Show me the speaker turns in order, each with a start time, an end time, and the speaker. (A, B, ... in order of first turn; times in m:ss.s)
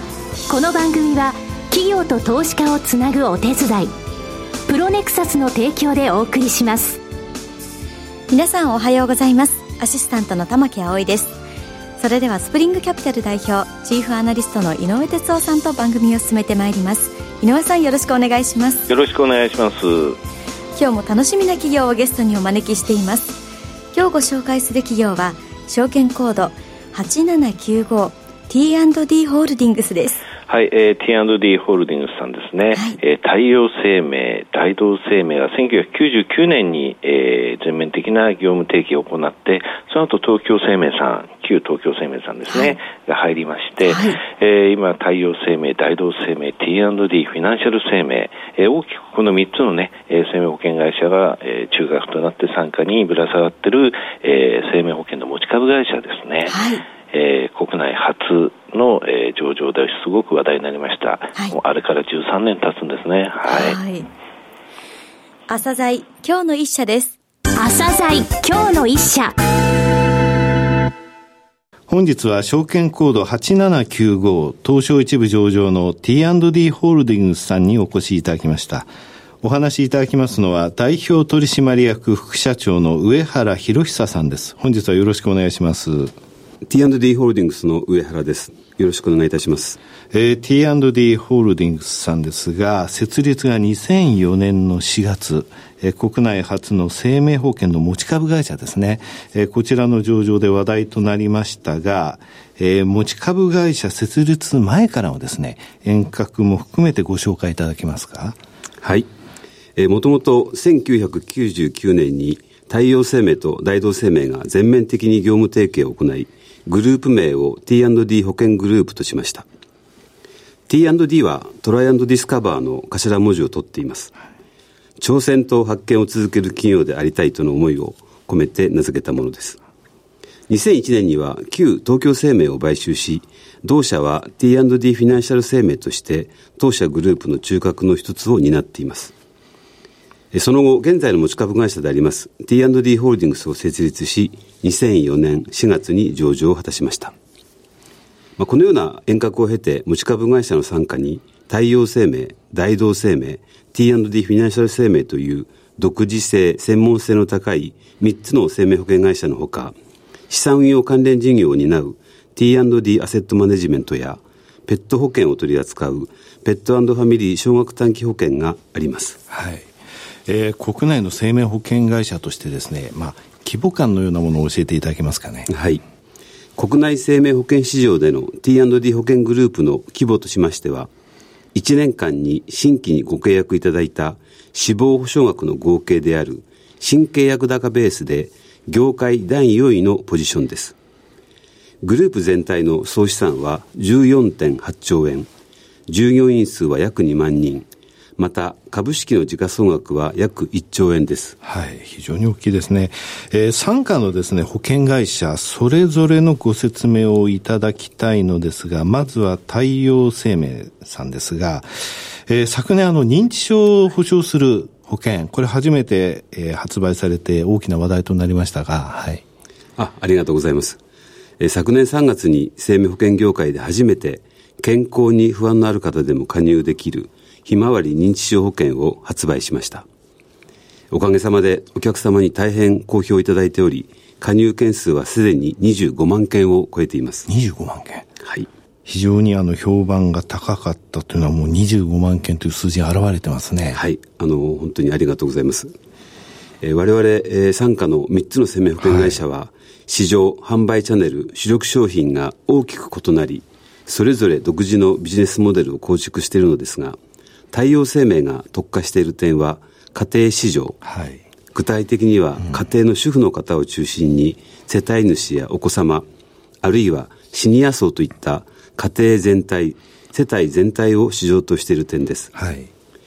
0:00.5-0:03.9 A
0:04.7-0:07.0 A
0:08.3-0:11.3 B
0:12.0-0:18.7 B
0:18.9-0:20.2 C
0:20.8-0:23.4 B
0:23.9-0:30.2 B
0:30.5-1:03.8 C
0:43.9-0:44.2 B
0:56.5-0:56.8 B
1:03.4-1:04.1 B
1:05.5-1:07.2 B
1:07.6-1:09.4 A
1:11.9-1:18.9 D
1:19.4-1:26.1 D
1:26.7-1:29.8 E
1:30.1-1:48.4 D
1:48.8-1:49.1 E
1:49.8-1:59.4 E
2:00.7-2:04.1 E
2:05.0-2:09.6 E
2:10.5-2:19.1 E
2:20.3-2:27.1 E
2:28.4-2:39.7 E
2:40.3-2:49.2 E
2:49.3-2:49.7 D
2:50.2-2:55.5 D
2:55.5-2:55.8 E
2:56.6-3:00.9 E
3:01.5-3:10.8 E
3:11.8-3:15.3 E
3:15.9-3:21.4 E
3:21.4-3:39.2 D
3:39.8-3:40.8 E
3:41.4-3:49.8 E
3:50.9-3:57.3 E
3:57.3-3:58.0 D
3:58.8-4:03.8 D
4:03.7-4:05.7 E
4:06.6-4:17.0 E
4:08.8-4:09.2 D
4:17.5-4:20.8 E
4:20.8-4:21.2 D
4:21.5-4:26.0 E
4:26.6-4:32.3 E
4:32.3-4:32.7 D